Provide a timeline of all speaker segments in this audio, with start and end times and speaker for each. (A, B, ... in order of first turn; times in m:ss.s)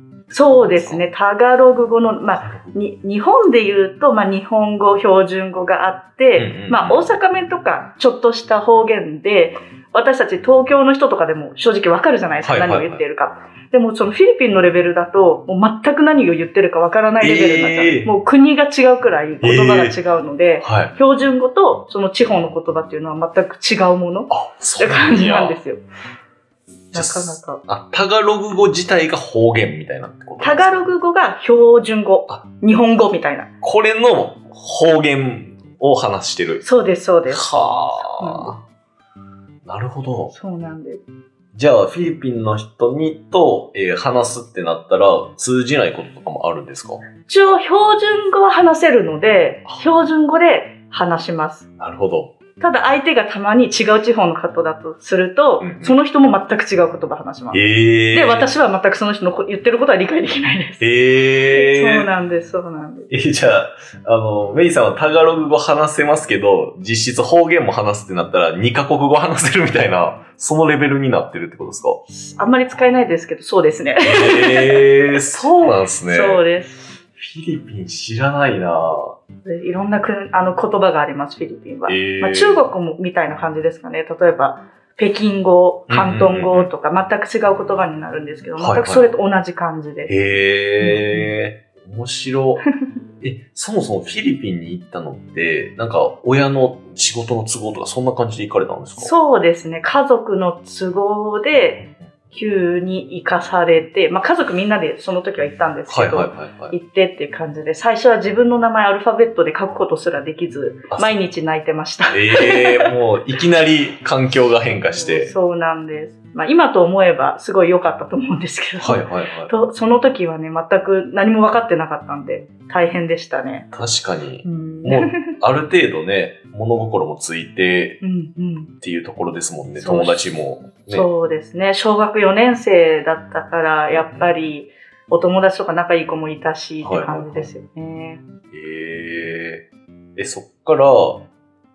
0:00.3-0:25.8 A
0:00.5-0:01.0 B
0:02.4-0:02.7 B
0:06.4-0:07.1 B
0:12.4-0:13.0 B
0:17.2-0:18.1 B
0:19.4-0:20.0 B
0:20.6-0:20.9 B
0:24.3-0:25.6 B
0:26.9-0:27.6 A
0:26.9-0:30.9 B
0:30.4-0:33.5 A
0:33.6-0:36.6 B
0:36.6-0:38.5 A
0:37.3-0:38.6 B
0:39.6-0:40.3 B
0:40.3-0:41.0 A
0:41.5-0:47.0 B
0:47.3-0:51.6 A
0:51.8-0:52.3 B
0:52.6-0:57.6 A
0:55.6-0:56.0 B
0:57.5-0:58.5 B
0:58.1-1:00.8 A
1:00.8-1:02.1 B
1:01.5-1:03.1 A
1:03.1-1:12.0 B
1:12.1-1:14.9 A
1:14.0-1:16.4 B
1:16.1-1:16.9 A
1:17.2-1:19.2 B
1:19.4-1:30.1 A
1:21.8-1:22.6 B
1:25.9-1:26.7 B
1:28.6-1:29.0 B
1:30.1-1:32.6 B
1:30.8-1:31.3 A
1:33.2-1:39.1 B
1:39.0-1:52.9 A
1:45.9-1:46.8 B
1:50.9-1:51.2 B
1:52.1-1:55.3 B
1:54.9-2:03.7 A
1:58.8-1:59.5 B
2:03.7-2:08.0 B
2:04.4-2:05.2 A
2:08.0-2:08.7 A
2:08.8-2:11.1 B
2:09.8-2:10.2 A
2:10.9-2:18.2 A
2:13.9-2:14.3 B
2:16.8-2:17.5 B
2:18.5-2:19.6 B
2:20.2-2:21.2 B